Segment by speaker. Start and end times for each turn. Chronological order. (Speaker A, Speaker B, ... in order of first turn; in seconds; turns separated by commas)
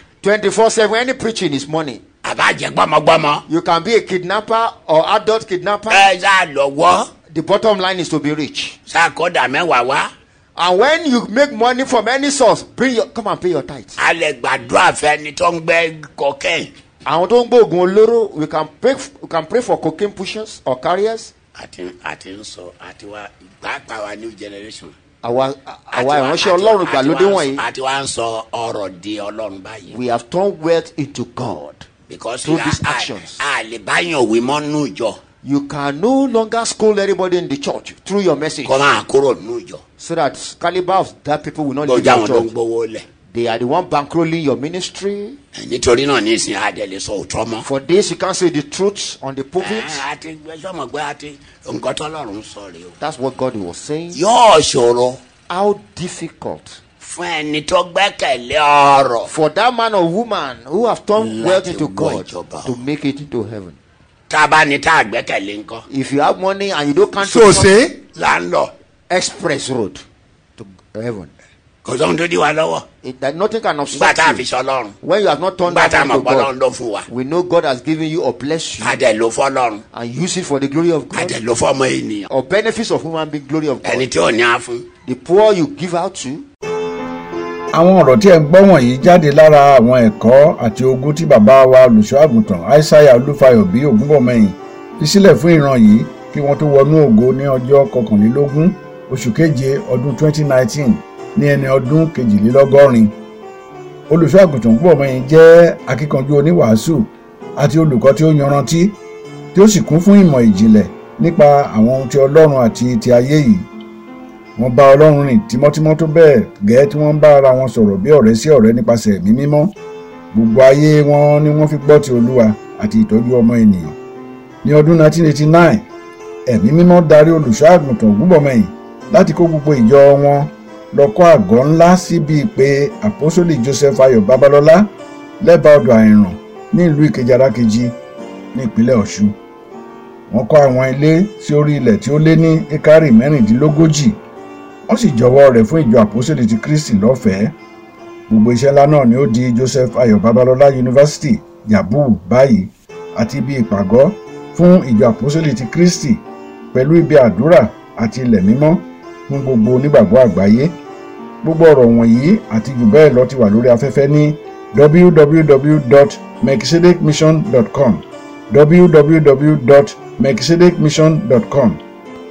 Speaker A: 0.2-2.0, Speaker B: 2.2-3.4, Speaker A: 3.5-6.1, Speaker B: 5.9-7.1, Speaker A: 7.3-8.8, Speaker B: 8.9-10.1, Speaker A: 10.6-14.0, Speaker B: 14.0-16.7, Speaker A: 17.0-21.3, Speaker B: 21.6-24.9, Speaker A: 25.2-27.6, Speaker B: 25.9-29.9, Speaker A: 29.9-31.9, Speaker B: 32.1-35.2, Speaker A: 32.4-33.4, Speaker A: 35.4-39.0, Speaker B: 38.6-39.8, Speaker A: 40.0-42.5, Speaker B: 41.8-43.0, Speaker A: 43.3-45.4, Speaker B: 45.5-47.6, Speaker A: 47.6-50.0, Speaker B: 49.6-52.9, Speaker A: 53.0-54.2, Speaker B: 54.1-55.2, Speaker A: 55.5-56.8, Speaker B: 57.0-59.3, Speaker A: 59.2-63.8, Speaker B: 61.2-62.8, Speaker B: 64.3-65.8, Speaker A: 65.9-67.7, Speaker B: 67.2-68.7, Speaker A: 69.1-70.0, Speaker A: 70.6-71.3, Speaker B: 71.8-72.9, Speaker A: 73.0-74.5, Speaker B: 73.9-74.9, Speaker A: 75.0-76.5, Speaker B: 75.7-77.0, Speaker A: 77.1-79.0, Speaker B: 78.8-79.8, Speaker A: 79.9-81.4, Speaker B: 81.1-82.3, Speaker A: 82.3-84.1, Speaker B: 83.8-84.9, Speaker A: 85.0-86.5, Speaker C: 87.7-103.1, Speaker C: 104.1-109.0, Speaker C: 109.5-113.7, Speaker C: 114.6-119.7, Speaker C: 120.3-124.0, Speaker C: 124.6-125.8, Speaker C: 126.5-134.9, Speaker C: 135.4-137.9, Speaker C: 138.5-139.3, Speaker C: 140.3-144.2, Speaker C: 144.9-147.5, Speaker C: 148.3-160.7, Speaker C: 161.4-171.8